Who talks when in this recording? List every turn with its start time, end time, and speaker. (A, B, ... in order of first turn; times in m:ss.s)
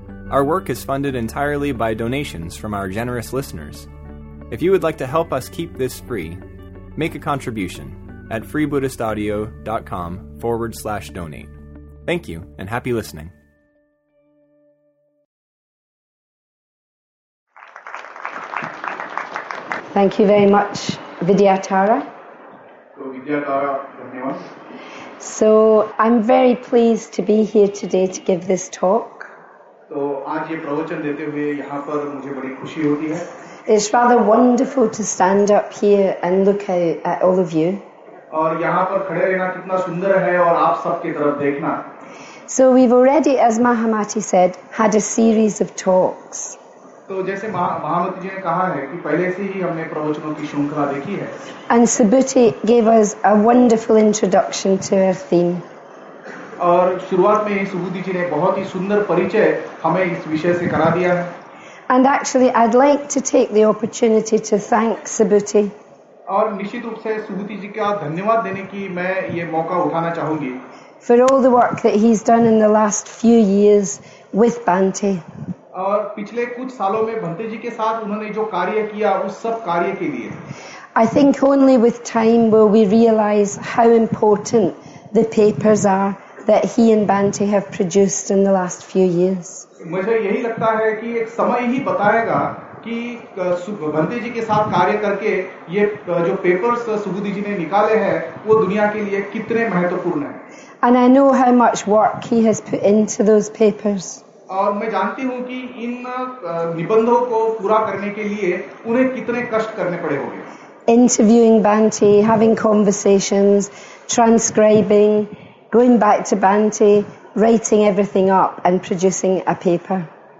0:00.3-0:03.9 A
0:04.5-0:06.4 A
0:06.9-0:11.5 A
0:12.0-0:13.3 A
0:19.9-0:22.1 B
0:22.9-0:24.5 C
0:25.2-0:29.3 B
0:29.9-0:33.3 C
0:33.7-0:37.8 B
0:38.3-0:41.8 C
0:42.5-0:46.6 B
0:47.1-0:51.3 C
0:51.7-0:55.6 B
0:56.6-1:01.3 C
1:01.9-1:05.7 B
1:06.3-1:10.6 C
1:11.0-1:15.2 B
1:15.7-1:20.4 C
1:21.0-1:29.6 B
1:29.8-1:40.4 C
1:40.8-1:44.2 B
1:44.5-1:50.5 C
1:50.9-2:00.1 B